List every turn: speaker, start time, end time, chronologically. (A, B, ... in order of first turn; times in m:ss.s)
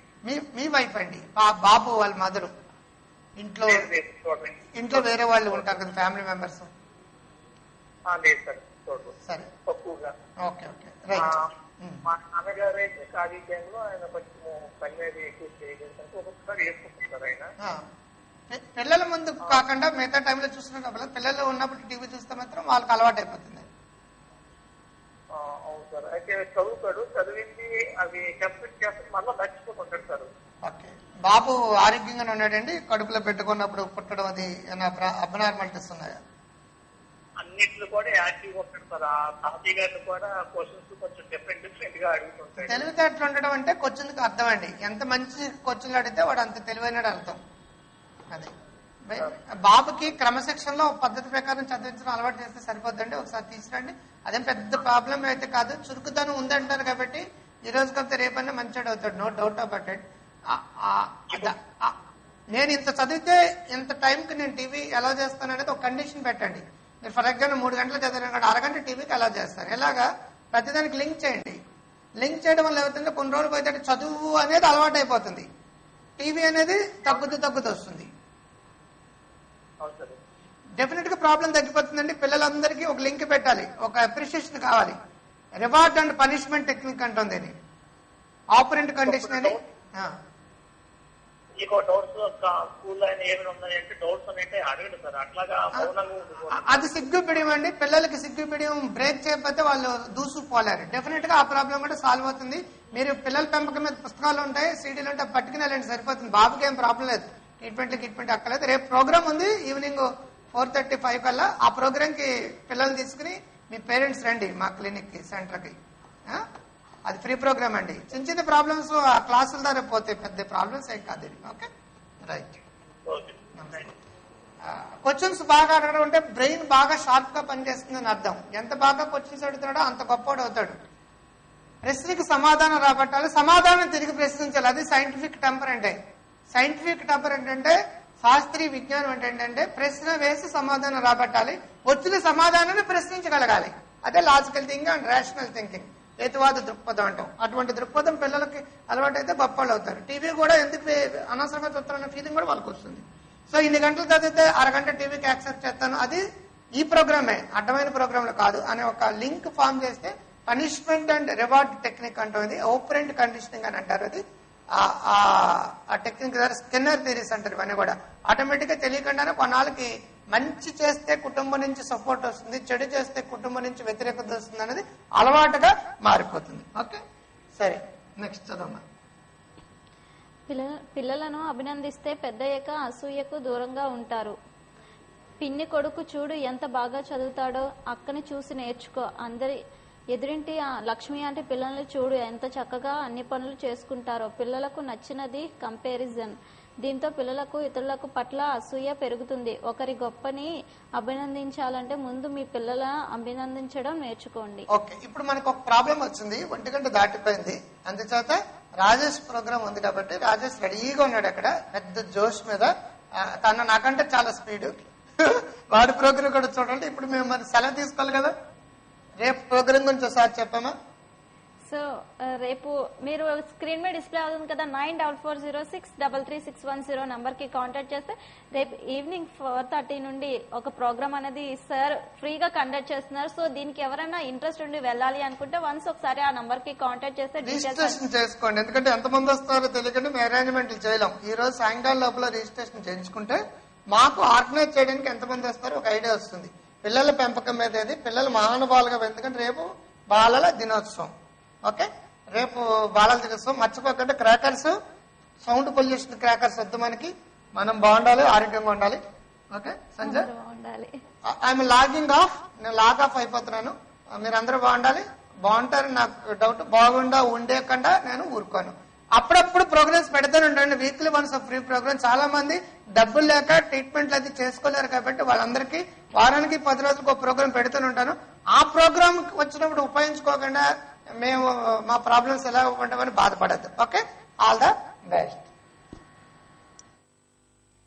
0:00.2-0:02.5 A
0:03.4-0:03.9 A
0:03.7-0:05.6 B
0:04.7-0:06.7 A
0:08.1-0:09.1 B
0:09.6-0:10.1 B
0:10.4-0:12.0 A
0:11.2-0:11.5 B
0:12.0-0:17.5 B
0:17.6-0:17.9 A
0:18.5-0:23.7 A
0:25.3-0:30.3 B
0:30.6-0:36.2 A
0:37.4-0:42.8 B
0:42.6-0:47.4 A
0:49.1-1:02.0 A
1:02.5-1:11.6 A
1:12.2-1:15.5 A
1:16.2-1:18.1 A
1:19.8-1:20.2 B
1:20.8-1:25.0 A
1:25.6-1:27.6 A
1:28.6-1:30.2 A
1:29.0-1:29.6 B
1:31.6-1:36.9 B
1:36.5-1:56.5 A
1:57.0-2:01.7 A
2:02.2-2:02.6 A
2:03.1-2:03.9 B
2:03.6-2:03.9 A
2:04.6-2:10.8 A
2:11.8-2:16.0 A
2:16.5-2:36.2 A
2:36.8-2:57.0 A
2:57.6-2:58.8 A
3:00.5-3:04.4 C
3:05.4-3:09.6 C
3:10.1-3:24.7 C
3:24.7-3:38.3 A
3:39.2-3:40.7 A
3:41.7-3:58.0 C
3:57.4-4:03.4 A
4:03.9-4:11.1 A
4:11.6-4:14.8 A
4:15.4-4:19.0 A
4:19.5-4:20.3 A
4:20.0-4:21.0 C
4:21.2-4:40.6 A
4:41.2-4:45.4 A